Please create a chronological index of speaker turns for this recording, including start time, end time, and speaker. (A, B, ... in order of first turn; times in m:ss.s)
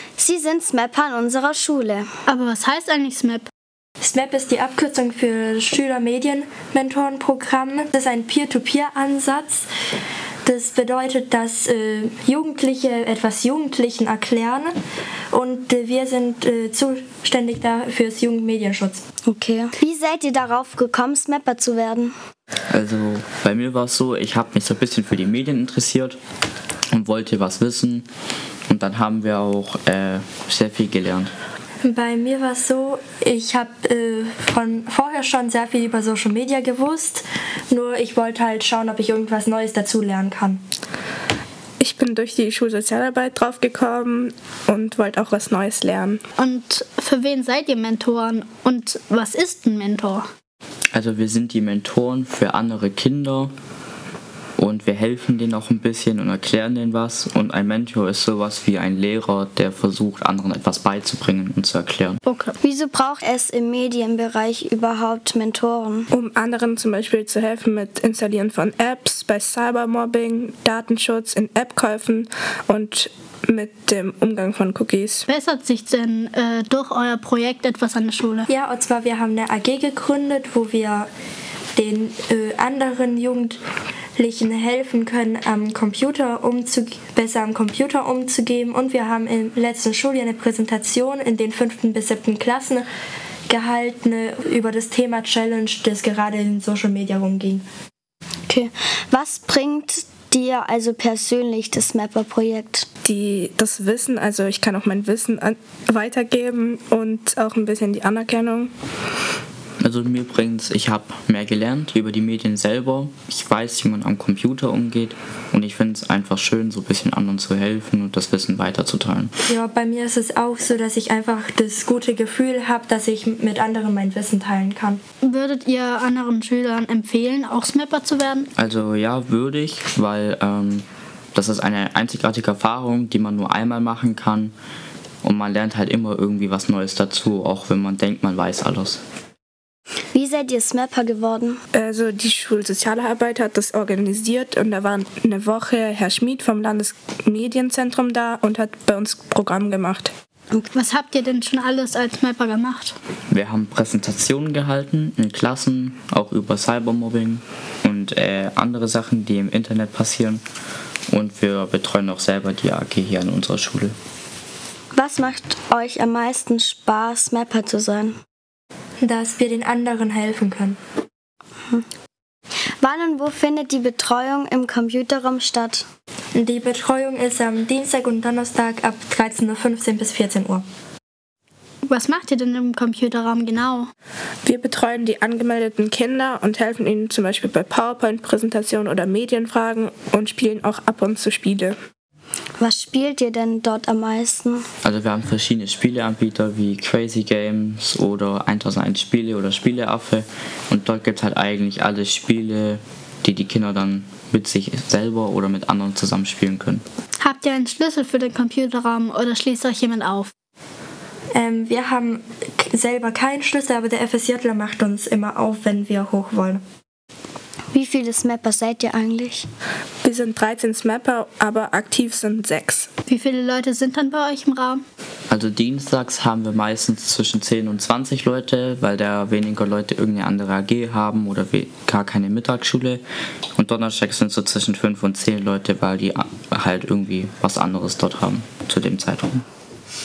0:00.2-0:02.1 A
0:02.3-0:03.5 B
0:04.0-0:09.7 C
0:10.4-0:14.7 C
0:15.3-0:19.0 C
0:19.3-0:22.1 A
0:22.7-0:26.2 D
0:26.9-0:28.1 D
0:28.7-0:31.3 D
0:31.8-0:40.6 C
0:41.8-0:46.2 E
0:46.4-0:50.3 B
0:50.9-0:53.5 D
0:54.6-1:02.2 D
1:02.2-1:02.6 B
1:02.6-1:06.1 A
1:06.1-1:15.2 E
1:15.3-1:18.5 B
1:18.5-1:21.1 C
1:21.8-1:23.6 C
1:24.2-1:32.9 C
1:33.5-1:37.6 C
1:38.5-1:42.9 A
1:43.0-1:48.7 E
1:49.8-1:59.3 D
1:59.5-2:05.0 C
2:05.2-2:08.5 B
2:08.6-2:14.5 D
2:15.2-2:19.0 D
2:20.1-2:21.6 A
2:21.7-2:30.1 E
2:30.7-2:33.0 B
2:33.3-2:40.4 D
2:41.1-2:44.0 D
2:44.9-2:48.2 A
2:49.0-2:50.8 C
2:52.8-2:55.8 A
2:56.4-3:00.6 C
3:01.8-3:03.9 B
3:04.4-3:11.8 E
3:12.6-3:14.7 A
3:14.8-3:26.8 D
3:27.2-3:30.3 B
3:31.3-3:36.6 C
3:37.7-3:39.5 A
3:40.0-3:42.9 E
3:43.1-3:44.8 B
3:45.3-3:53.0 D
3:53.6-3:59.4 D